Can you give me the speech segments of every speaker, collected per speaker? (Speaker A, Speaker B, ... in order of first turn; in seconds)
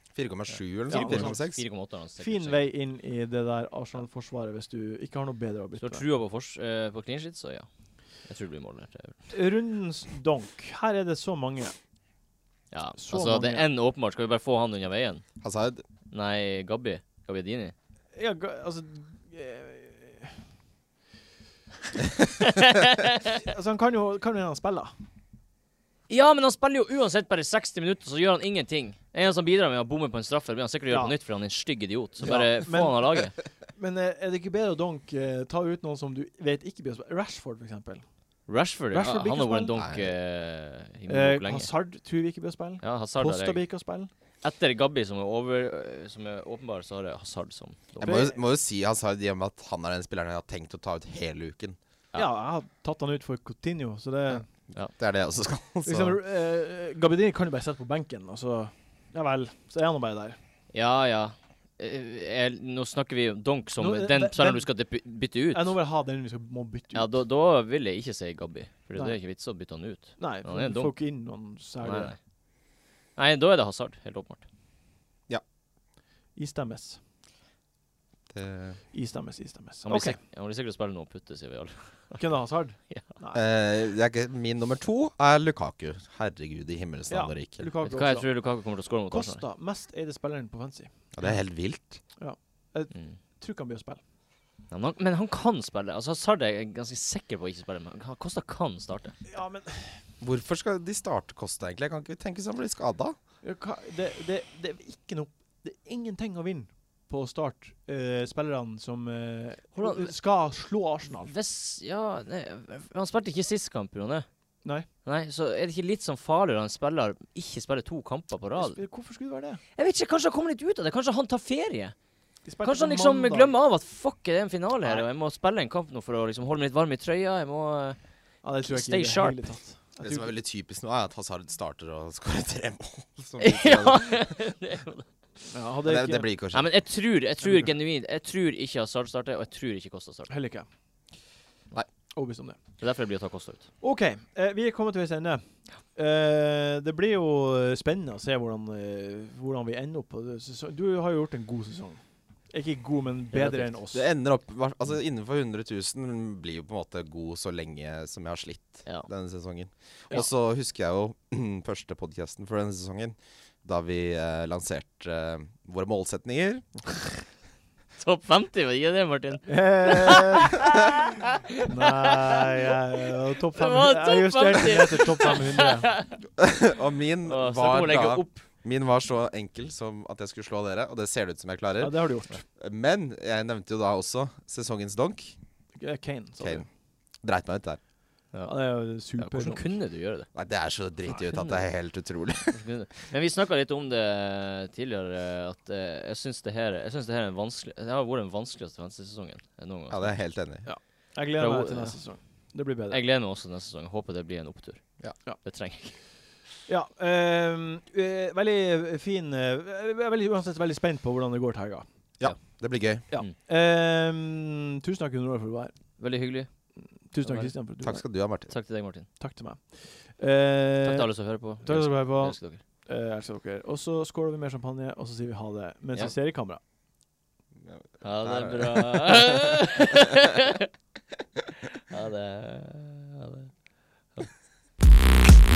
Speaker A: 0.1-1.6, 15.4-15.8, 39.7-40.1, 48.0-51.8, 54.9-56.2, 78.3-78.8, 83.3-87.7, 91.1-92.0, 100.2-103.2, 130.0-134.3, 135.8-136.7, 153.9-166.7, 176.4-185.3, 186.4-186.7, 187.2-187.8, 190.3-192.6, 199.9-200.7, 212.2-213.1, 217.8-218.5, 227.6-229.5
Speaker B: 0.8-2.7, 5.8-7.7, 8.2-9.3, 12.7-15.2, 16.1-17.7, 22.4-23.4, 26.1-33.3, 38.5-41.7, 42.8-43.6, 44.4-48.2, 60.7-65.7, 66.9-71.0, 71.8-72.2, 73.2-74.4, 79.8-82.2, 87.8-89.4, 94.7-99.2, 109.7-110.1, 111.1-114.2, 115.0-118.8, 119.8-121.9, 122.6-128.0, 128.6-129.4, 133.4-135.0, 136.5-140.3, 142.8-143.7, 153.3-153.7, 158.8-159.1, 168.0-172.8, 173.5-176.2, 177.2-178.4, 188.3-190.3, 191.2-191.7, 192.5-200.2, 201.4-202.0, 202.9-206.0, 216.0-216.7, 217.2-217.5, 218.5-219.1, 220.8-222.6, 228.0-230.7, 231.9-233.5
Speaker C: 0.9-1.4, 2.2-6.0, 9.3-11.7, 13.0-13.6, 18.1-20.4, 23.4-24.9, 30.9-31.1, 32.2-38.0, 38.9-39.7, 41.1-44.1, 48.0-48.4, 52.1-54.4, 55.8-60.4, 63.8-64.7, 65.5-67.2, 70.2-72.1, 76.3-77.0, 78.9-80.2, 82.2-83.4, 87.1-88.3, 89.1-90.9, 92.2-94.0, 99.3-100.0, 103.4-111.3, 118.6-119.6, 122.5-123.5, 128.4-130.3, 135.5-136.3, 137.4-137.7, 140.3-140.7, 142.1-142.6, 143.8-154.1, 169.5-170.6, 171.6-175.9, 181.8-182.4, 185.8-186.7, 188.4-189.6, 200.6-203.0, 206.7-211.8, 213.1-216.0, 216.8-218.0, 219.2-226.6